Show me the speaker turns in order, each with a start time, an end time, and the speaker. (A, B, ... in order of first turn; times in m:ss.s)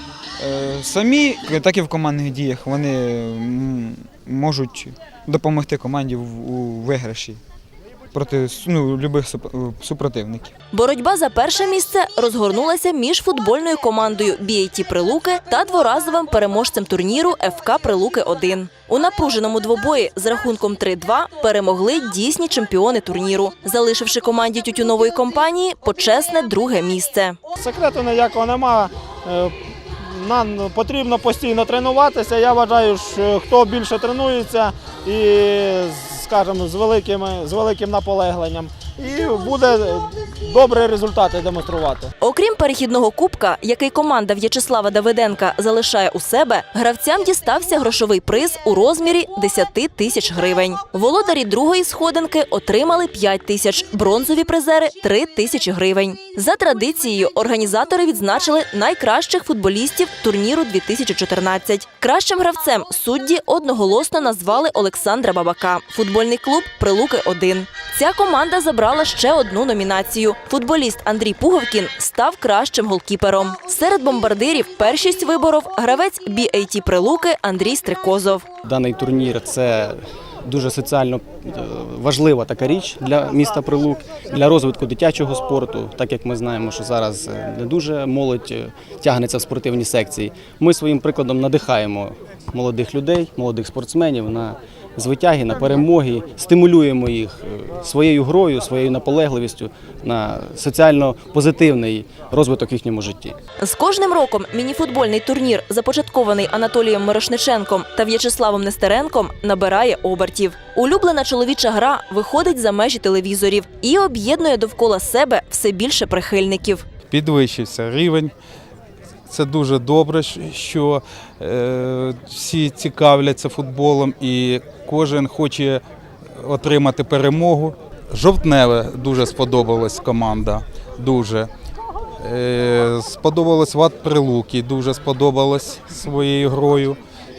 0:00.4-0:07.4 A
0:08.1-0:10.5 A
0:10.7-0:27.4 B
0:27.6-0:42.1 C
0:42.2-1:18.4 B
1:18.6-1:43.4 D
1:43.6-1:56.8 B
1:57.1-1:58.3 E
1:59.3-2:05.8 E
2:06.4-2:11.5 E
2:12.2-2:17.0 E